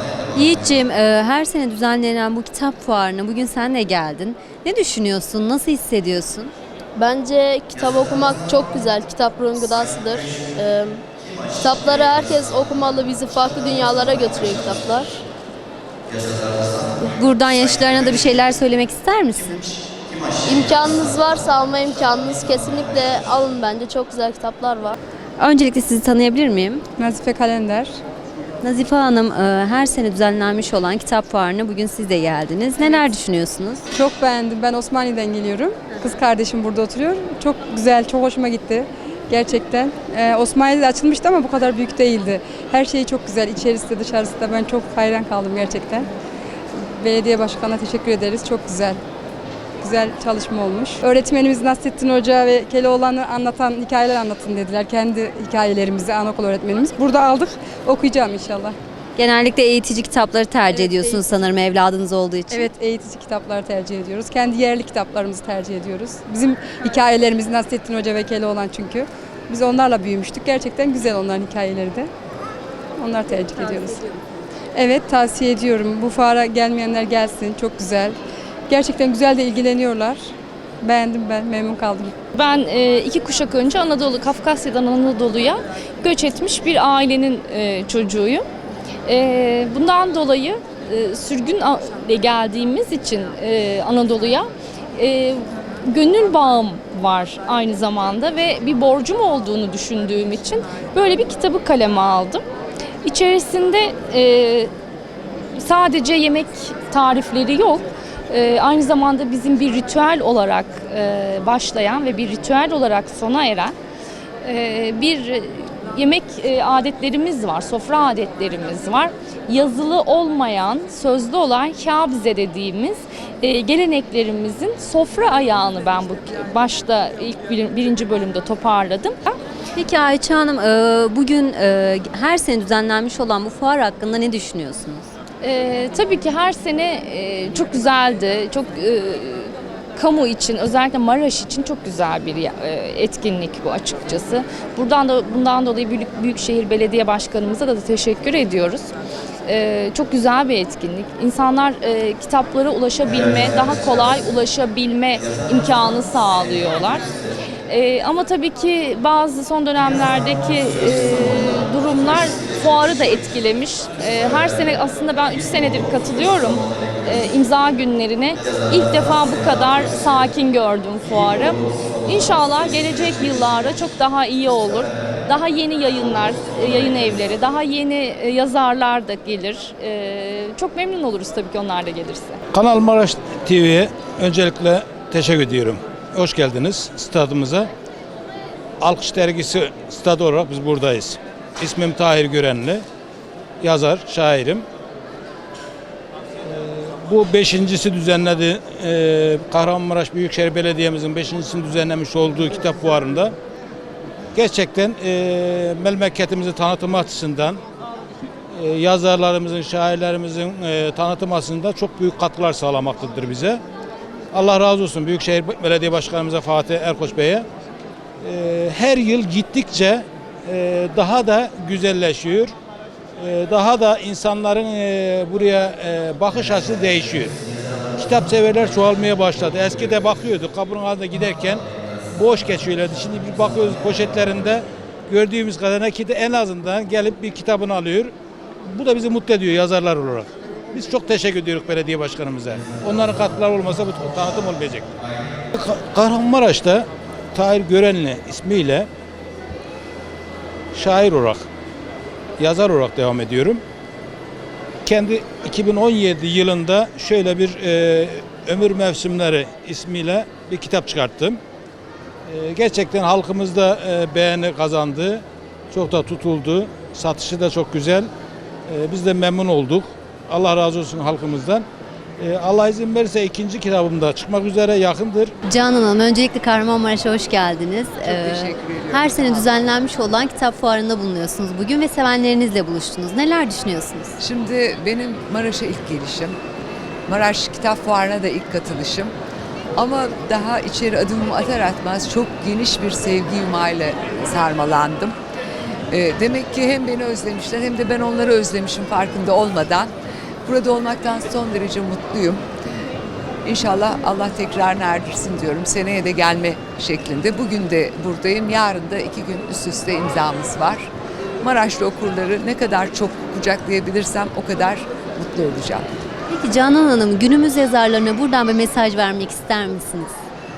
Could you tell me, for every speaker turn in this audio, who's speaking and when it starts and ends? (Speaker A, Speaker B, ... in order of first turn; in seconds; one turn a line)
Speaker A: 0.3-6.5
Speaker B: 7.0-11.1
Speaker B: 11.6-15.2
Speaker A: 17.0-19.7
Speaker B: 20.4-25.0
Speaker A: 25.4-26.8
Speaker C: 27.0-27.9
Speaker A: 28.6-33.8
Speaker C: 33.9-46.1
Speaker C: 46.8-49.0
Speaker C: 49.8-58.7
Speaker A: 59.2-62.7
Speaker C: 60.7-61.5
Speaker C: 62.5-72.1
Speaker C: 73.0-74.1
Speaker C: 74.8-78.2
Speaker C: 78.7-82.1
Speaker D: 82.3-88.5
Speaker D: 89.1-102.4
Speaker D: 103.0-104.7
Speaker D: 105.6-113.7
Speaker D: 114.4-129.4
Speaker A: 129.7-135.1
Speaker D: 135.4-148.9
Speaker D: 149.5-157.1
Speaker D: 157.7-182.4
Speaker E: 182.5-187.7
Speaker E: 188.8-192.8
Speaker E: 193.6-194.7
Speaker E: 196.4-203.3
Speaker E: 204.3-207.6
Speaker E: 208.5-213.6
Speaker E: 214.3-217.4
Speaker E: 218.2-222.5
Speaker E: 223.2-227.4
Speaker E: 228.0-238.1
Speaker E: 238.7-244.9
Speaker E: 245.5-248.9
Speaker E: 250.8-251.4
Speaker E: 252.4-253.6
Speaker E: 254.8-261.4
Speaker E: 262.3-268.1
Speaker E: 268.7-271.6
Speaker E: 272.2-275.3
Speaker A: 275.5-284.2
Speaker F: 278.0-279.6
Speaker F: 284.2-286.4
Speaker F: 287.1-289.1
Speaker F: 289.8-295.2
Speaker F: 295.9-299.9
Speaker F: 300.4-302.4
Speaker F: 303.4-316.0
Speaker A: 316.3-320.1